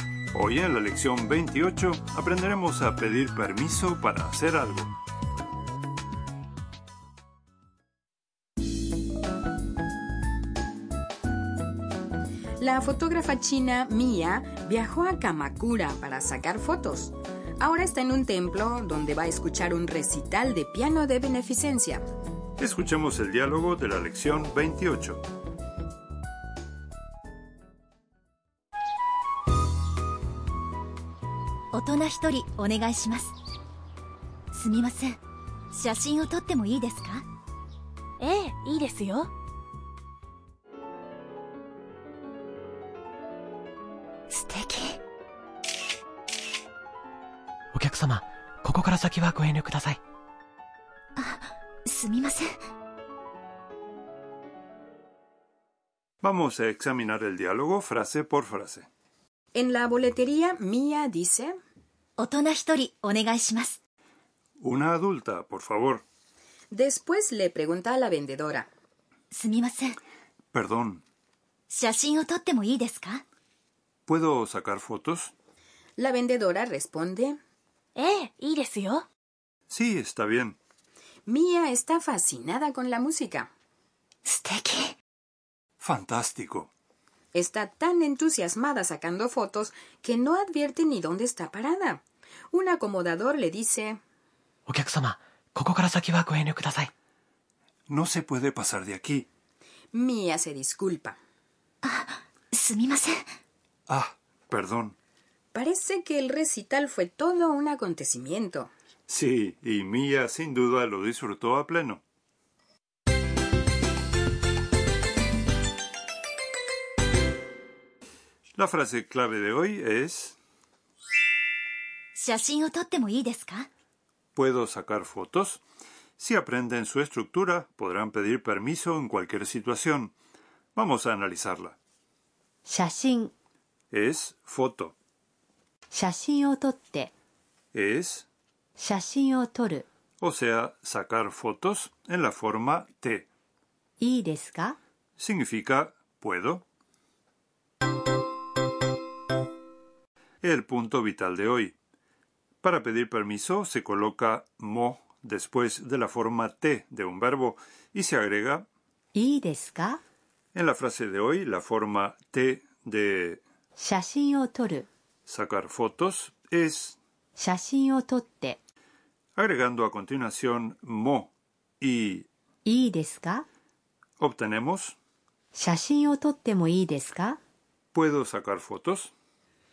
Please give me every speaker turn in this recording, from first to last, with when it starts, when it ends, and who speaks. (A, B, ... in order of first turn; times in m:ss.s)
0:00.3-0:04.9 A
0:12.6-0:22.0 B
0:22.6-0:25.2 A
0:31.7-0:33.3 C
0:34.5-0:35.2 C
0:35.7-0:37.2 C
0:38.2-0:39.3 D
0:44.3-0:45.0 C
0:47.7-0:50.0 E
0:51.2-0:52.6 C
0:56.2-0:58.9 A
0:59.5-1:01.5 B
1:02.2-1:03.8 C
1:04.6-1:06.0 A
1:06.7-1:08.7 B
1:09.3-1:10.0 C
1:10.5-1:11.0 A
1:11.7-1:13.2 C
1:14.1-1:15.3 A
1:16.0-1:17.4 B
1:18.0-1:19.0 D
1:19.7-1:20.6 A
1:21.2-1:23.5 B
1:24.2-1:24.9 C
1:25.8-1:26.7 A
1:27.3-1:34.0 B
1:34.7-1:36.9 E
1:37.9-1:39.3 A
1:39.9-1:41.2 B
1:41.8-1:43.2 C
1:43.9-1:45.0 A
1:45.5-1:48.7 B
1:49.1-1:52.0 A
1:58.6-2:00.4 A
2:02.1-2:03.7 C
2:04.3-2:05.6 A
2:06.2-2:10.1 A
2:10.7-2:11.8 A
2:12.6-2:13.3 F
2:13.9-2:14.9 A
2:15.9-2:17.1 F
2:17.7-2:18.3 A
2:18.8-2:19.8 F
2:20.2-2:23.3 A
2:24.0-2:24.8 F
2:25.2-2:26.6 A
2:30.4-2:31.7 A
2:32.6-2:38.7 A
2:39.1-2:40.0 F
2:40.5-2:43.4 A
2:43.8-2:44.9 F
2:45.3-2:47.0 A
2:47.4-2:48.6 F
2:49.4-2:52.3 A
2:52.6-2:53.5 F
2:54.2-2:55.0 A
2:55.5-2:57.4 F
2:57.9-2:59.1 A